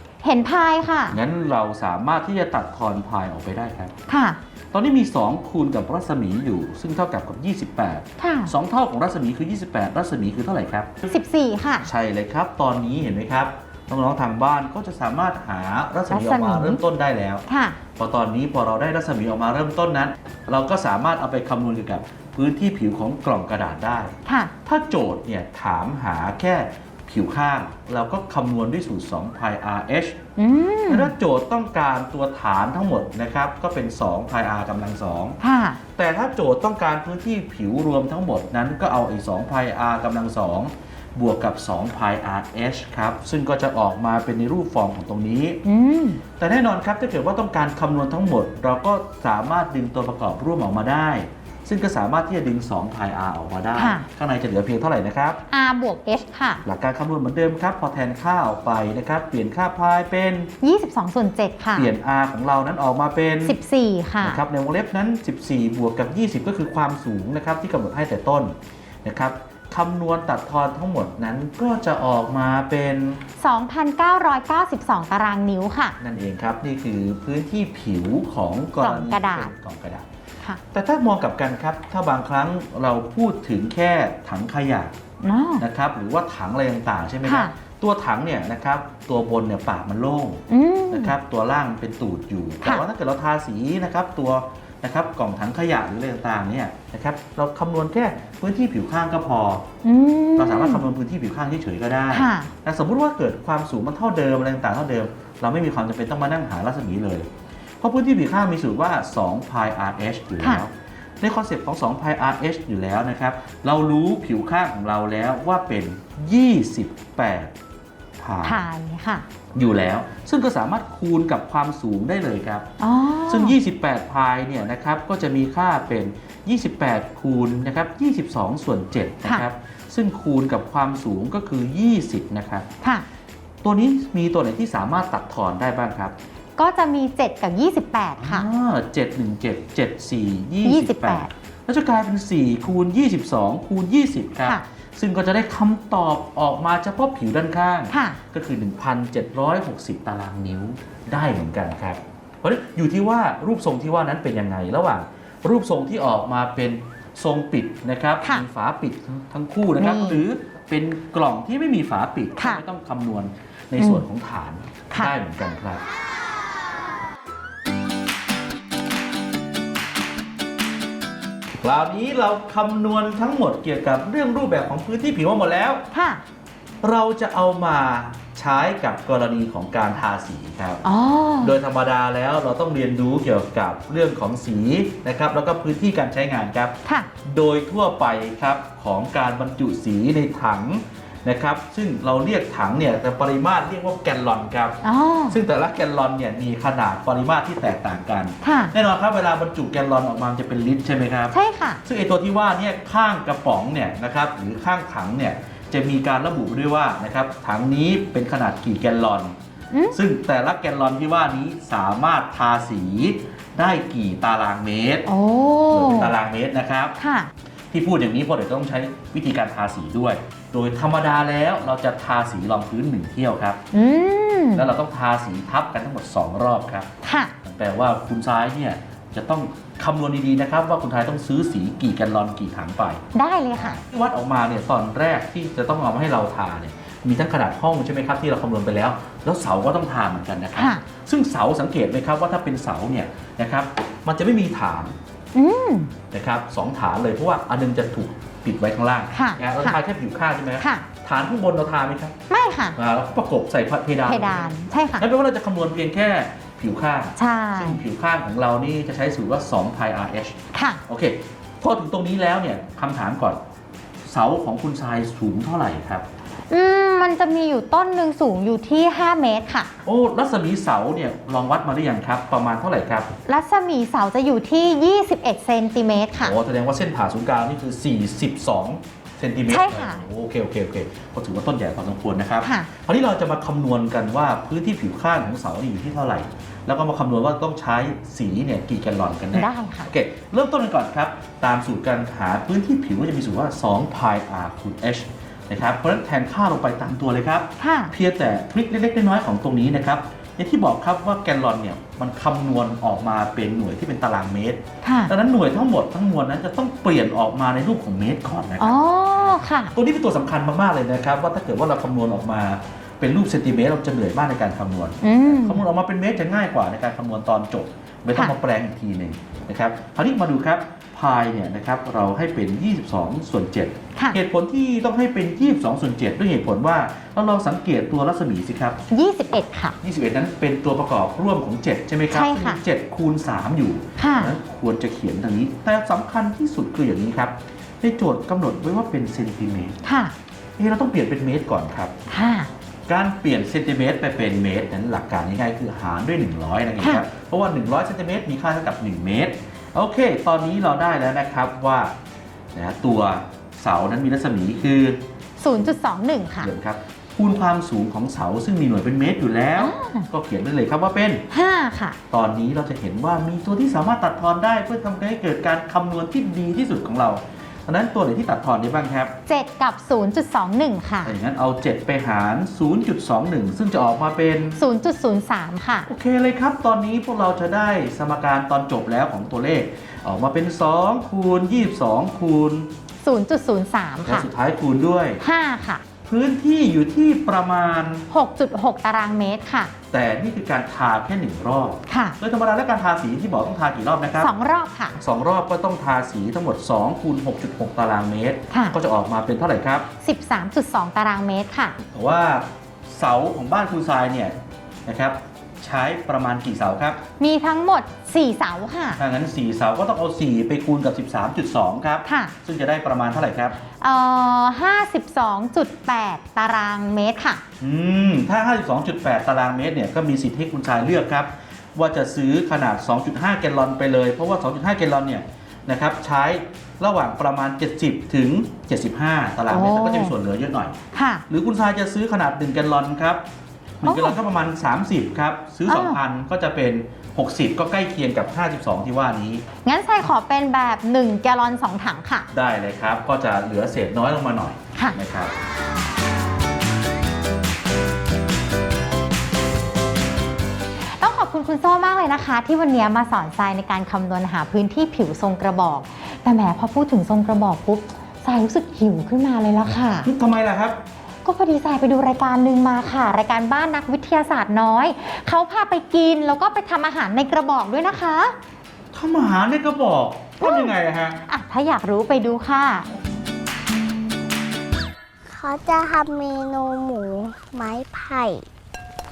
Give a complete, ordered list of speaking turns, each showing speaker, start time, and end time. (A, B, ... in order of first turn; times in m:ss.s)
0:00.2-0:01.2 A
0:01.1-0:03.9 B
0:04.1-0:04.4 A
0:04.7-0:11.1 B
0:08.2-0:08.5 A
0:11.1-0:11.9 A
0:11.8-0:17.4 B
0:16.1-0:16.8 A
0:17.5-0:17.8 A
0:18.0-0:30.2 B
0:24.2-0:24.5 A
0:30.4-0:31.1 A
0:30.9-0:35.4 B
0:35.4-0:35.8 A
0:35.9-0:45.6 B
0:45.6-0:46.2 A
0:46.4-0:55.4 B
0:53.8-0:54.0 A
0:55.5-0:56.6 A
0:56.6-1:00.5 B
1:00.6-1:01.9 A
1:01.7-1:03.6 B
1:03.4-1:04.4 A
1:04.2-1:13.2 B
1:13.4-1:16.0 A
1:16.0-1:20.1 B
1:18.8-1:19.5 A
1:20.7-1:24.9 B
1:25.2-1:25.6 A
1:25.6-1:39.7 B
1:27.2-1:27.5 A
1:30.5-1:31.1 A
1:39.8-1:40.8 A
1:40.4-1:47.3 B
1:42.1-1:42.5 A
1:47.8-1:57.5 B
1:58.2-1:58.6 B
1:58.4-1:59.2 A
1:59.5-2:02.7 B
2:02.8-2:03.6 A
2:03.3-2:12.7 B
2:13.6-2:16.1 B
2:16.6-2:18.5 A
2:18.2-2:45.8 B
2:20.6-2:21.3 A
2:27.9-2:28.2 A
2:39.8-2:40.2 A
2:42.4-2:42.6 A
2:43.8-2:44.0 A
2:51.6-2:55.8 B
2:55.9-2:56.2 A
2:56.8-3:00.8 B
3:00.8-3:01.5 A
3:01.4-3:14.8 B
3:06.8-3:07.1 A
3:14.8-3:15.4 A
3:15.3-3:29.3 B
3:18.4-3:18.7 A
3:21.3-3:21.8 A
3:29.7-3:30.0 A
3:29.9-3:35.1 B
3:35.0-3:36.1 A
3:35.7-3:36.9 B
3:37.0-3:37.3 A
3:37.7-3:43.6 B
3:43.7-3:44.7 A
3:44.5-3:46.9 B
3:47.0-3:47.3 A
3:47.4-3:53.0 B
3:53.1-3:53.8 A
3:53.6-4:04.9 B
4:00.6-4:00.8 A
4:05.3-4:05.9 A
4:06.1-4:12.2 B
4:09.1-4:09.8 A
4:10.6-4:10.8 A
4:12.3-4:12.8 A
4:12.8-4:23.4 B
4:14.0-4:15.0 A
4:17.2-4:17.8 A
4:20.5-4:20.8 A
4:24.0-4:26.0 B
4:26.5-4:29.7 A
4:29.8-4:33.1 B
4:33.2-4:36.3 A
4:36.2-5:28.8 B
4:39.5-4:40.0 A
4:42.4-4:42.7 A
4:49.3-4:49.9 A
4:57.6-4:57.9 A
5:04.8-5:05.1 A
5:08.6-5:09.7 A
5:15.0-5:15.6 A
5:28.9-5:29.8 A
5:29.8-5:39.8 B
5:32.1-5:32.6 A
5:34.0-5:34.3 A
5:39.8-5:40.1 A
5:40.6-5:41.9 B
5:42.1-5:42.5 A
5:42.9-5:51.9 B
5:52.5-5:55.0 B
5:55.4-5:56.5 A
5:56.4-6:01.2 B
5:59.6-6:00.1 A
6:01.3-6:02.0 A
6:02.1-6:09.2 B
6:09.3-6:11.1 A
6:11.0-6:14.6 B
6:14.6-6:15.9 A
6:15.9-6:22.7 B
6:23.0-6:24.3 A
6:24.0-6:25.2 B
6:25.2-6:25.8 A
6:26.0-6:28.0 B
6:28.1-6:29.7 A
6:29.9-6:34.3 B
6:31.9-6:32.2 A
6:34.2-6:35.0 A
6:35.0-6:39.9 B
6:40.0-6:41.8 A
6:41.8-6:47.0 B
6:47.2-6:49.0 A
6:49.0-6:53.6 B
6:52.0-6:52.3 A
6:53.8-6:57.4 A
6:57.6-7:13.2 B
7:09.5-7:10.1 A
7:10.9-7:11.2 A
7:13.8-7:19.4 B
7:13.8-7:14.2 A
7:15.7-7:16.0 A
7:19.6-7:22.3 A
7:22.3-7:25.3 B
7:30.9-7:40.1 A
7:40.0-7:40.8 B
7:41.2-7:48.4 A
7:48.9-7:51.2 B
7:50.4-7:50.7 A
7:51.2-7:52.9 A
7:55.3-7:58.4 C